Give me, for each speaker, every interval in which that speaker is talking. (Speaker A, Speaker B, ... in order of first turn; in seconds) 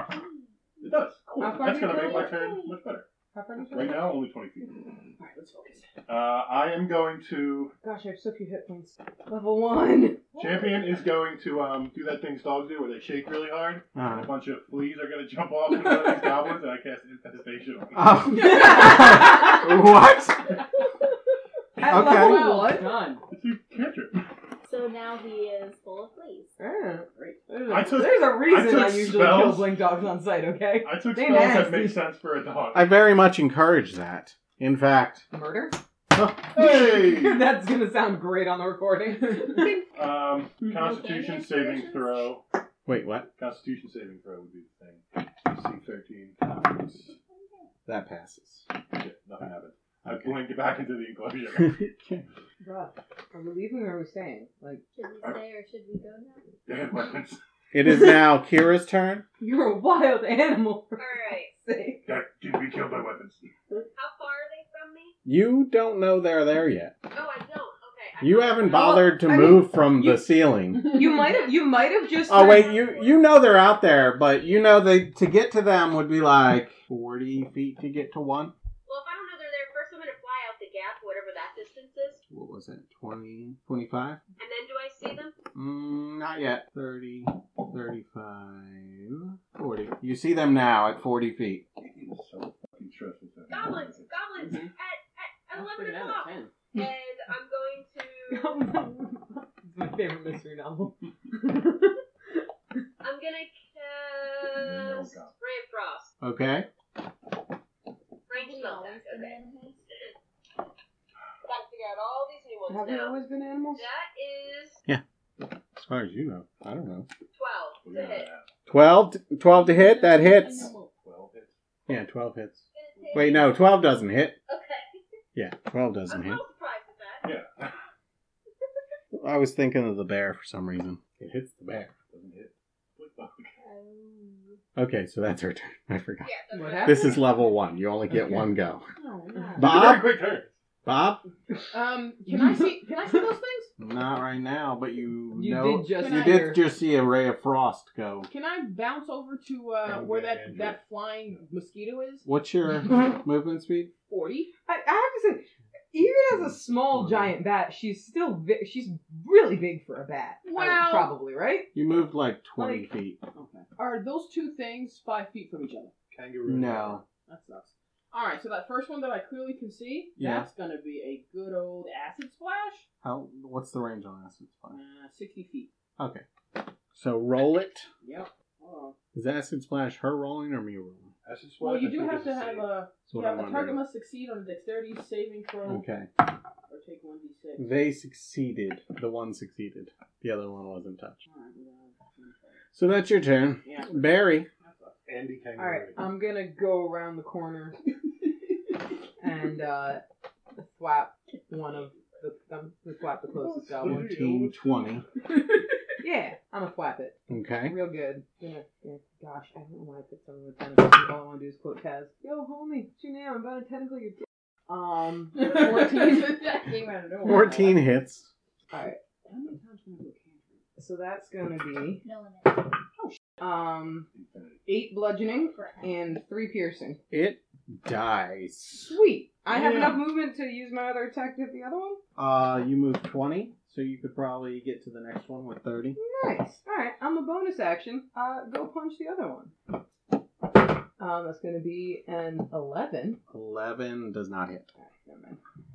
Speaker A: 0.8-3.1, 3.6-4.7, 6.1-7.7, 10.4-18.6, 21.8-22.1, 23.3-24.2, 27.7-29.8, 30.8-33.0, 36.5-37.4, 39.8-42.4, 43.4-47.0, 48.9-51.9, 56.6-57.4, 62.0-63.5, 91.8-94.2, 104.4-105.3, 117.8-118.5, 120.9-121.5, 123.0-123.3, 127.2-127.8, 132.1-133.5, 139.6-140.5, 149.8-150.8, 166.1-167.0, 181.2-182.7, 195.1-196.0, 203.4-205.0, 224.1-224.6
Speaker B: 1.4-2.5, 3.3-4.1, 7.8-10.3, 18.5-19.0, 21.8-23.0, 26.6-32.1, 35.3-35.8, 36.6-39.8, 52.6-54.8, 59.4-62.1, 68.7-70.2, 70.8-72.8, 98.3-102.0, 112.7-113.8, 136.5-137.1, 145.3-146.6, 154.7-161.7, 162.6-162.9, 195.6-197.8, 199.2-200.0, 200.6-204.1, 206.0-216.4, 218.7-219.0, 220.8-222.0, 223.4-224.1, 224.7-227.0, 228.8-232.0, 235.9-239.5, 241.0-243.2, 244.8-245.4
Speaker C: 2.2-2.6, 5.2-5.9, 10.3-10.9, 21.9-23.2, 27.1-27.5, 94.4-94.7, 95.5-96.5, 119.4-120.9, 138.9-139.6, 141.7-143.7, 145.9-146.6, 148.3-152.2, 154.1-154.5, 160.4-161.1, 163.3-165.9, 167.2-172.8, 174.7-175.7, 178.0-178.9, 181.6-185.8, 186.7-187.7, 191.2-192.7, 193.6-195.0, 215.3-217.8, 219.2-220.6
Speaker D: 13.9-14.3, 17.9-20.6, 21.9-22.5, 32.7-35.3, 36.1-36.9, 42.9-43.3, 46.5-46.7, 47.9-48.6, 51.6-52.2, 57.7-59.2, 65.2-67.0, 68.2-71.0, 72.3-78.5, 82.3-84.2, 85.5-91.6, 106.2-106.7, 114.9-117.1, 118.7-120.7, 121.9-124.4, 125.3-126.4, 129.1-131.9, 134.8-136.3, 136.8-138.8, 139.6-140.2, 140.8-141.2, 143.8-148.3, 152.2-153.9, 156.4-157.3, 161.7-163.2, 166.4-167.0, 170.2-170.5, 173.0-174.8, 176.0-177.9, 179.1-181.1, 183.1-183.8, 185.6-186.1, 187.6-191.2, 192.7-194.5, 203.8-205.0, 207.3-207.8, 217.2-218.3, 227.1-228.9, 229.5-229.9, 232.2-236.0, 243.3-244.7
Speaker E: 24.6-26.5, 40.7-42.2, 47.3-47.6, 54.9-56.5, 108.3-109.8, 133.6-134.6, 222.0-222.7, 225.5-225.9
Speaker F: 61.0-61.5, 63.9-65.1, 67.1-69.1, 71.2-73.4, 78.8-82.2, 84.4-85.3, 93.5-98.6, 103.0-106.1, 108.3-109.4, 111.4-113.2, 113.7-114.8, 117.3-118.3, 122.7-123.8, 124.5-125.0, 126.1-127.3, 136.2-137.2